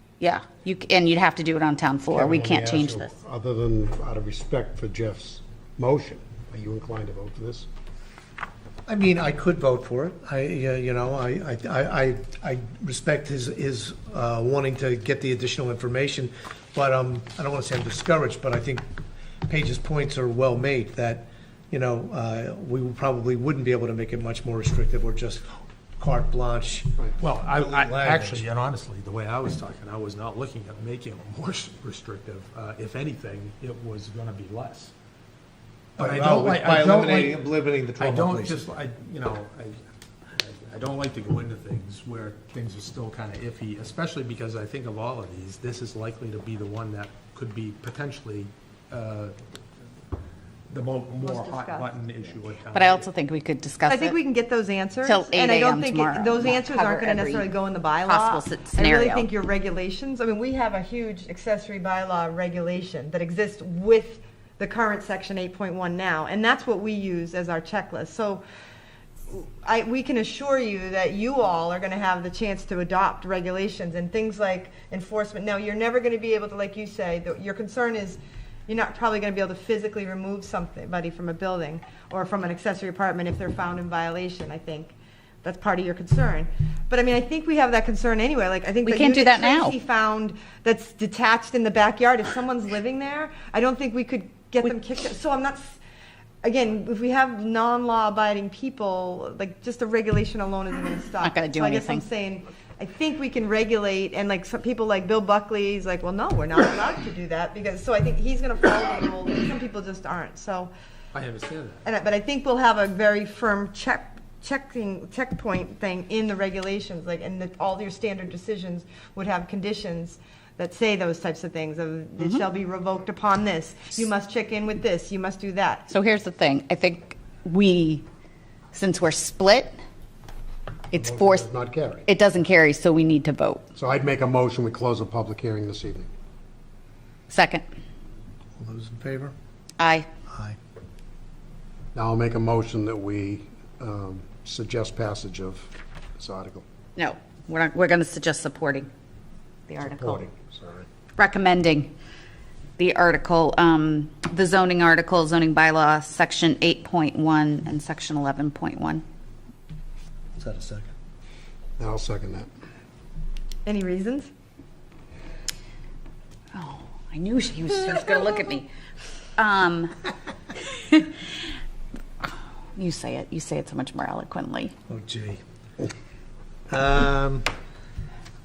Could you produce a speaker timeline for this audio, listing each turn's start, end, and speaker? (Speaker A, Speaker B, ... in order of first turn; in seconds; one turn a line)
Speaker A: 0.2-3.1
Speaker B: 2.1-7.7
Speaker C: 8.9-18.8
Speaker C: 19.5-25.5
Speaker C: 26.0-28.4
Speaker D: 27.2-34.9
Speaker D: 36.0-37.4
Speaker C: 36.0-38.7
Speaker D: 38.0-39.8
Speaker D: 40.4-49.3
Speaker D: 50.7-53.1
Speaker E: 51.2-52.0
Speaker A: 52.7-54.2
Speaker E: 53.9-68.4
Speaker A: 55.0-59.3
Speaker E: 69.3-95.8
Speaker A: 88.8-89.8
Speaker E: 96.4-110.7
Speaker A: 101.2-102.1
Speaker D: 111.1-111.8
Speaker E: 111.8-125.8
Speaker A: 122.2-122.5
Speaker A: 125.9-128.1
Speaker A: 128.7-129.7
Speaker A: 130.9-131.5
Speaker B: 130.9-132.0
Speaker A: 132.1-133.7
Speaker B: 133.8-136.1
Speaker A: 137.3-137.6
Speaker C: 138.6-139.3
Speaker A: 139.8-140.1
Speaker C: 140.3-140.6
Speaker B: 141.9-146.6
Speaker A: 146.9-148.9
Speaker A: 149.7-150.2
Speaker B: 149.8-150.8
Speaker A: 151.2-151.9
Speaker A: 152.8-159.0
Speaker C: 160.4-160.9
Speaker B: 161.8-162.5
Speaker E: 163.6-164.3
Speaker A: 166.5-168.7
Speaker A: 169.4-169.9
Speaker A: 170.7-171.1
Speaker A: 172.8-174.7
Speaker C: 174.9-175.4
Speaker C: 176.7-177.5